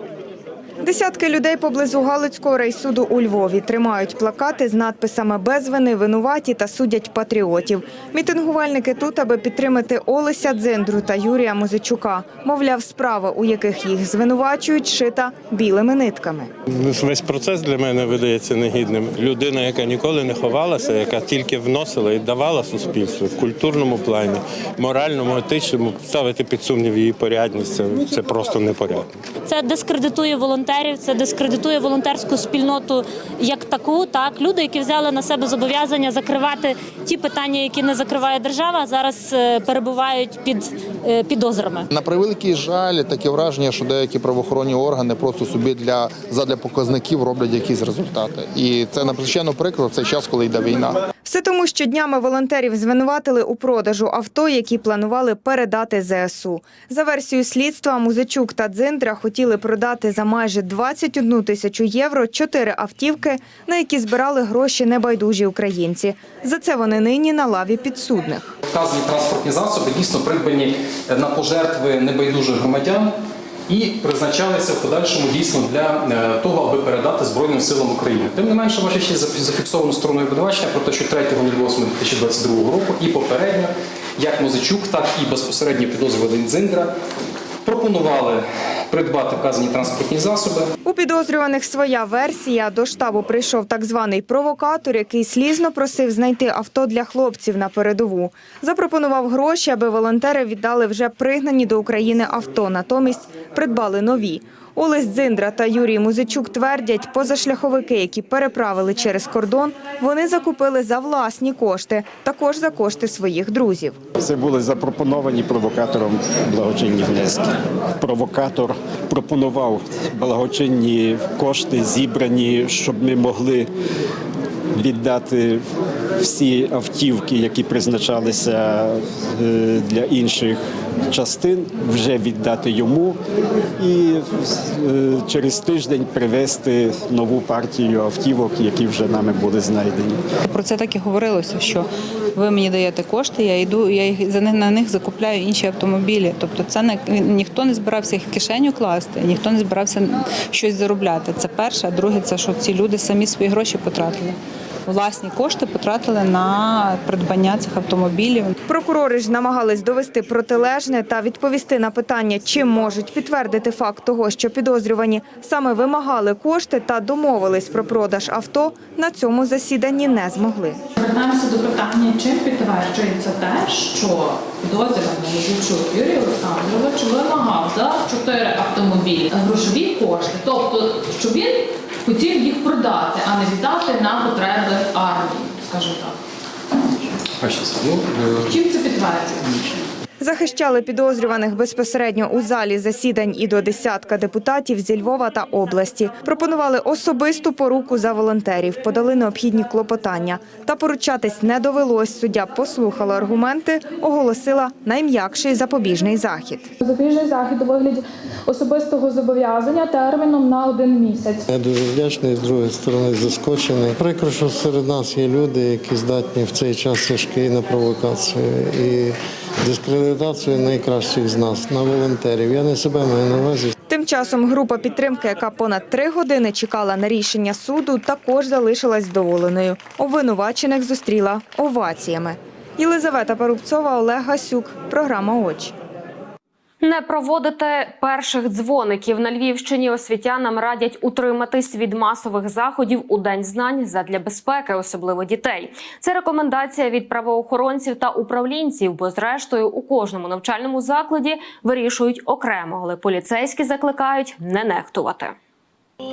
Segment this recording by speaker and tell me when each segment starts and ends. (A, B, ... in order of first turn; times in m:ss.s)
0:00.8-0:16.5 A
0:16.9-0:29.0 B
0:29.5-0:41.9 C
0:41.9-0:51.0 D
0:51.2-1:08.4 A
1:08.7-1:13.1 E
1:13.7-1:26.9 E
1:27.6-1:30.7 E
1:30.8-1:54.0 A
1:54.2-2:03.7 F
2:04.8-2:05.6 F
2:06.2-2:10.6 F
2:11.1-2:13.2 F
2:13.8-2:20.2 F
2:20.5-2:34.4 G
2:34.9-2:38.5 G
2:38.7-2:50.8 A
2:51.0-3:01.5 H
2:51.2-3:01.5 I
3:02.1-3:06.1 I
3:02.1-3:06.0 H
3:07.4-3:08.5 E
3:08.6-3:09.3 H
3:10.2-3:26.7 A
3:26.8-3:31.4 I
3:31.5-3:43.7 J
3:43.9-3:55.7 A
3:56.8-4:15.4 K